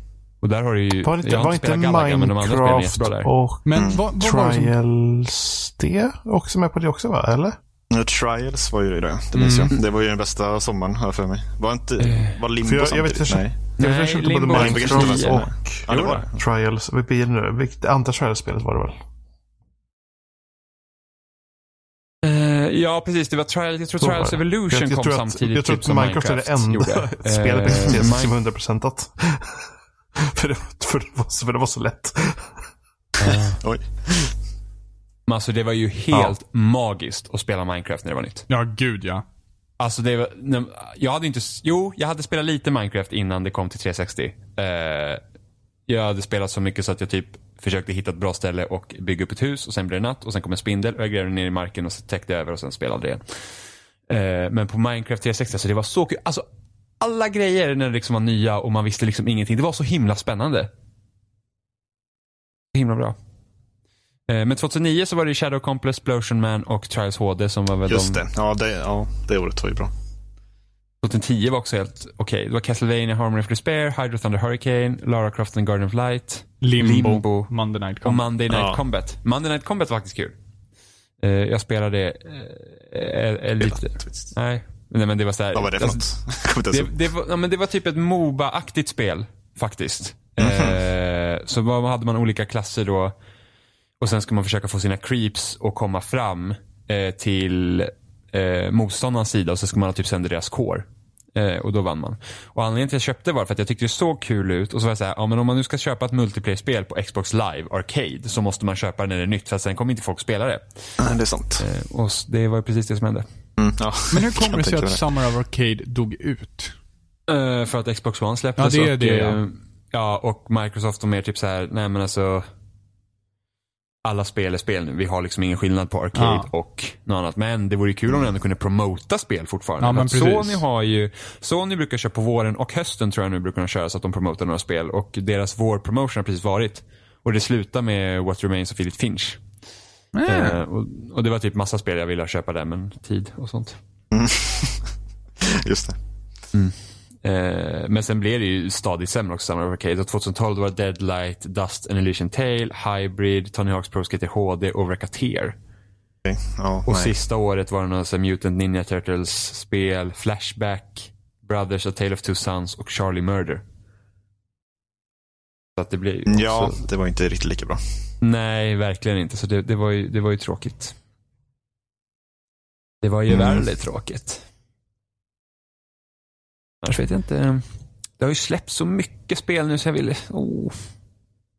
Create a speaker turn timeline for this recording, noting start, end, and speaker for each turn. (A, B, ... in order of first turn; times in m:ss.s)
0:00.4-0:03.3 A
0:01.0-0:07.6 B
0:03.6-0:04.7 C
0:07.9-0:13.6 D
0:09.4-0:09.7 C
0:12.0-0:12.4 A
0:12.6-0:19.0 B
0:13.8-0:16.1 A
0:14.5-0:16.4 D
0:22.2-0:28.3 A
0:24.0-0:29.6 B
0:30.2-0:32.5 B
0:33.2-0:33.6 A
0:33.3-0:34.3 D
0:35.3-0:38.5 A
0:38.5-0:39.2 C
0:39.8-0:45.2 A
0:45.9-0:53.2 A
0:54.1-0:56.4 A
0:57.0-1:00.7 A
1:02.7-1:03.2 A
1:04.3-1:08.2 A
1:07.9-1:09.9 D
1:11.0-1:17.5 A
1:16.6-1:18.2 C
1:18.0-1:20.4 A
1:18.5-1:18.8 D
1:21.2-1:26.1 A
1:23.6-1:24.3 D
1:25.5-1:26.9 D
1:26.7-1:33.1 A
1:30.4-1:30.8 D
1:34.0-1:50.9 A
1:51.0-1:51.7 D
1:51.6-1:53.3 A
1:53.6-1:55.1 D
1:54.1-1:56.7 C
1:57.3-2:02.4 A
1:58.6-1:59.4 C
2:04.0-2:19.4 A
2:06.2-2:06.5 C
2:09.8-2:10.6 C
2:20.1-2:20.6 C
2:20.3-2:23.8 A
2:24.1-2:26.0 D
2:26.5-2:35.6 A
2:36.2-2:37.1 D
2:36.9-2:43.6 A
2:45.8-2:46.8 A
2:46.3-2:47.8 D
2:48.2-2:50.9 A
2:53.0-2:54.4 A
2:53.3-2:53.6 D
2:56.8-2:57.6 A
2:58.2-3:00.8 A